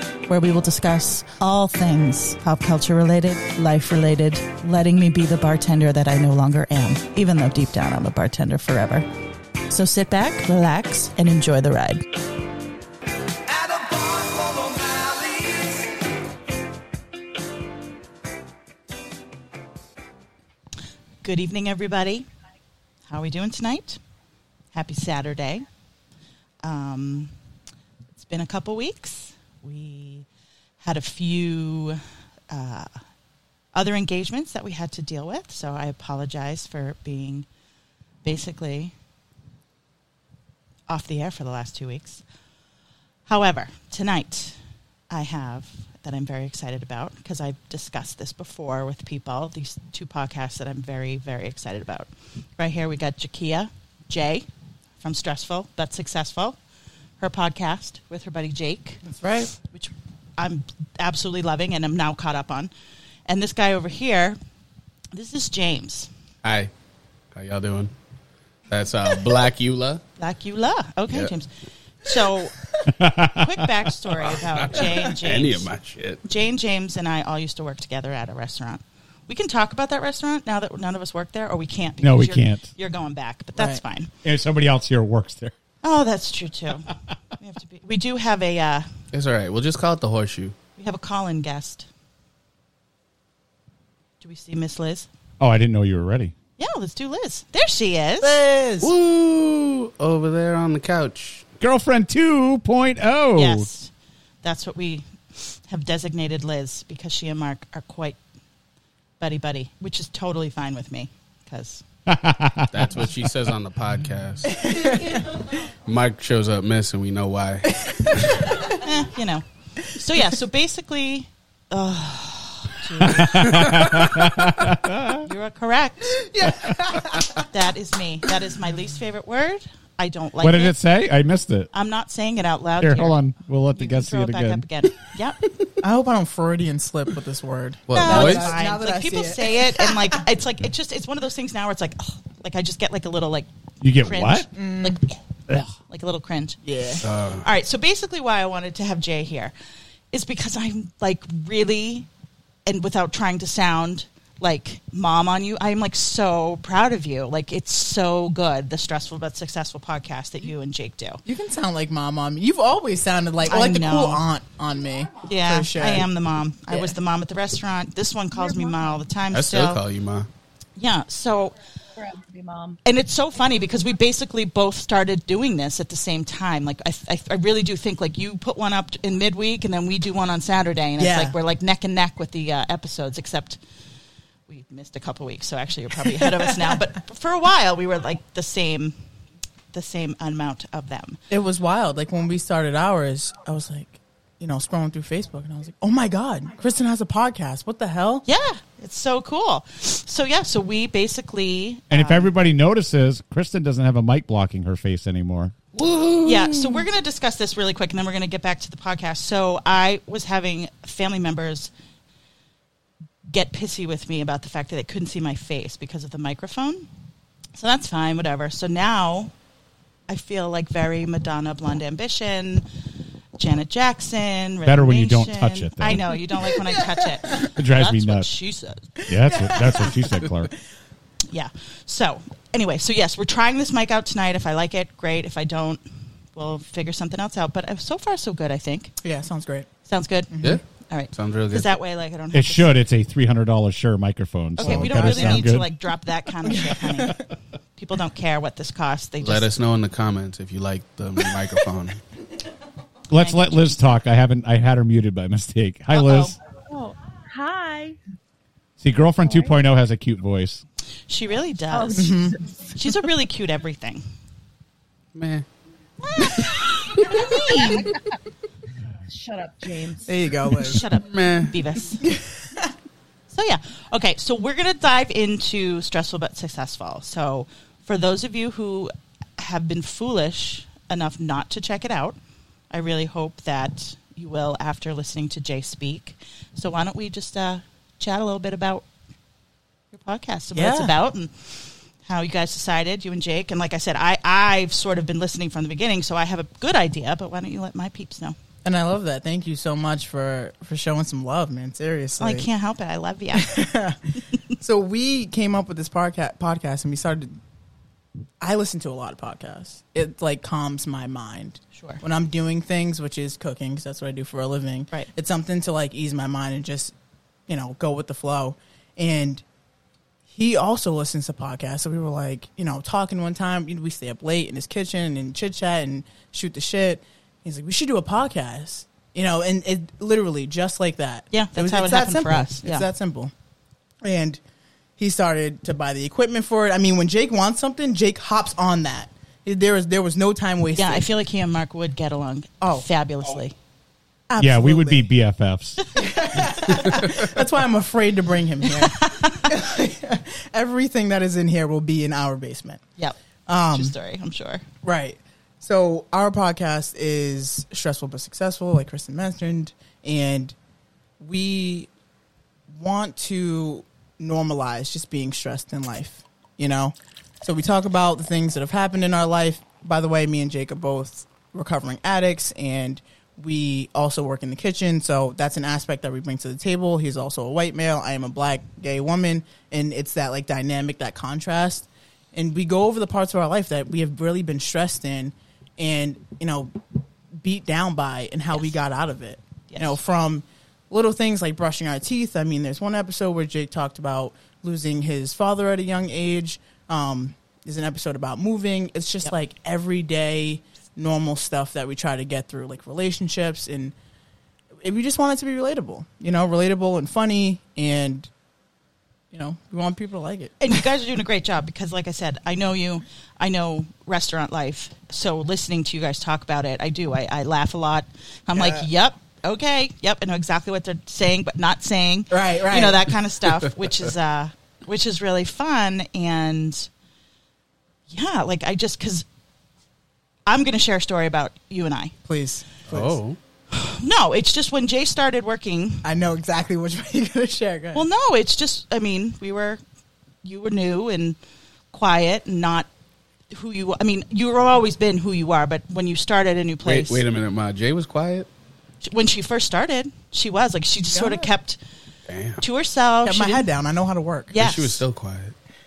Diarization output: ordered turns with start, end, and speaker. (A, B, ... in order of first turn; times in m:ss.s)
0:00.3-0:09.0 A
0:09.7-0:12.0 A
0:13.5-0:15.9 B
0:21.2-0:22.3 A
0:23.1-0:24.0 A
0:24.7-0:25.6 A
0:26.6-0:27.3 A
0:28.2-0:30.2 A
0:30.8-0:32.9 A
0:33.7-0:37.4 A
0:38.2-0:38.9 A
0:40.9-0:42.2 A
0:43.2-0:44.6 A
0:45.1-0:54.5 A
0:55.0-0:56.6 A
0:57.2-0:59.0 A
0:59.0-0:59.5 C
0:59.6-1:02.7 A
1:03.3-1:04.4 A
1:05.1-1:06.1 A
1:06.4-1:06.7 D
1:07.3-1:07.9 D
1:08.7-1:10.0 D
1:10.2-1:11.5 A
1:12.0-1:12.5 A
1:12.9-1:13.7 E
1:13.2-1:15.7 A
1:14.2-1:16.2 D
1:16.2-1:24.1 A
1:22.0-1:22.7 E
1:23.6-1:23.8 C
1:24.2-1:25.5 E
1:25.8-1:28.9 A
1:29.1-1:30.5 D
1:30.8-1:31.9 A
1:34.2-1:35.1 A
1:35.4-1:36.3 E
1:36.6-1:38.4 A
1:38.2-1:38.9 C
1:38.8-1:41.4 D
1:41.6-1:43.7 E
1:43.3-1:43.9 A
1:44.4-1:48.2 A
1:49.2-1:51.8 A
1:52.1-1:52.8 E
1:52.7-1:54.6 D
1:54.4-1:55.2 C
1:55.8-1:58.5 D
1:57.6-1:58.6 C
1:58.7-2:03.4 A
2:03.0-2:03.6 C
2:03.1-2:05.3 E
2:05.2-2:06.2 A
2:06.1-2:07.4 C
2:07.5-2:10.7 A
2:10.4-2:11.7 E
2:11.7-2:13.2 A
2:12.8-2:14.6 E
2:13.7-2:15.4 A
2:15.8-2:20.2 C
2:17.9-2:18.5 D
2:17.9-2:23.5 A
2:23.8-2:24.5 E
2:24.0-2:25.1 A
2:24.5-2:25.0 C
2:25.8-2:26.6 A
2:26.6-2:27.0 C
2:27.0-2:27.4 D
2:27.3-2:29.5 A
2:30.1-2:32.1 A
2:32.6-2:41.2 A
2:41.2-2:46.1 C
2:43.4-2:44.2 A
2:45.2-2:49.8 A
2:48.3-2:49.0 F
2:49.3-2:50.3 D
2:50.8-2:51.6 A
2:52.0-2:52.8 F
2:52.8-3:03.6 A
3:01.0-3:01.4 C
3:04.5-3:08.9 A
3:06.0-3:06.8 C
3:09.7-3:11.2 A
3:11.3-3:18.2 C
3:18.2-3:22.3 A
3:21.9-3:25.5 E
3:25.8-3:26.6 D
3:26.2-3:31.7 A
3:33.2-3:36.9 A
3:37.6-3:39.3 A
3:40.1-3:42.6 A
3:43.4-3:48.9 A
3:44.6-3:46.2 E
3:47.4-3:48.3 E
3:49.1-3:50.5 E
3:49.1-3:50.4 C
3:51.3-3:55.8 A
3:56.3-3:58.9 A
3:59.0-3:59.7 C
3:59.9-4:00.3 A
4:00.3-4:00.6 C
4:00.9-4:02.7 A
4:01.1-4:01.7 D
4:02.3-4:05.7 E
4:04.6-4:07.2 A
4:04.6-4:05.5 C
4:06.4-4:07.2 C
4:07.8-4:09.5 A
4:09.2-4:12.0 D
4:13.1-4:16.3 E
4:13.1-4:13.8 A
4:15.9-4:16.3 A
4:16.7-4:18.0 F
4:18.8-4:20.6 E
4:19.2-4:19.6 F
4:21.1-4:22.2 A
4:21.7-4:22.6 F
4:22.0-4:22.4 C
4:22.7-4:24.0 A
4:25.1-4:25.4 D
4:26.0-4:27.9 A
4:27.1-4:28.0 F
4:29.0-4:30.2 F
4:30.0-4:30.8 C
4:30.6-4:32.1 A
4:31.0-4:31.5 D
4:32.0-4:32.7 C
4:33.3-4:42.2 A
4:42.7-4:48.8 A
4:49.9-4:58.3 A
4:50.5-4:50.9 C
4:58.6-5:02.5 C
5:02.2-5:03.7 A
5:03.3-5:07.4 C
5:08.4-5:16.9 C
5:11.8-5:12.0 A
5:17.5-5:19.4 C
5:20.3-5:33.3 C
5:31.3-5:32.9 A
5:34.0-5:34.4 C
5:35.0-5:41.1 C
5:40.7-5:43.5 A
5:44.3-5:45.1 C
5:44.4-5:45.9 E
5:45.9-5:52.8 C
5:49.0-5:49.4 A
5:53.5-5:53.9 C
5:53.7-5:54.6 A
5:54.8-6:00.5 C
6:01.2-6:01.9 C
6:02.7-6:26.8 C
6:27.3-6:43.9 C
6:29.7-6:30.0 A
6:44.8-6:48.3 C
6:49.3-6:50.8 C
6:50.6-7:06.9 A
6:58.6-6:58.8 C
7:02.3-7:03.1 C
7:08.1-7:09.2 A
7:10.4-7:12.1 A
7:12.2-7:13.2 C
7:12.9-7:13.4 D
7:13.7-7:16.0 A
7:16.0-7:18.0 C
7:17.9-7:19.8 A
7:20.4-7:21.4 A
7:21.9-7:22.9 A
7:23.5-7:27.2 A
7:26.8-7:28.5 D
7:29.0-7:31.8 A
7:31.1-7:31.5 C
7:32.3-7:32.6 D
7:32.6-7:33.7 A
7:33.2-7:34.6 C
7:34.5-7:35.0 A
7:34.5-7:35.5 D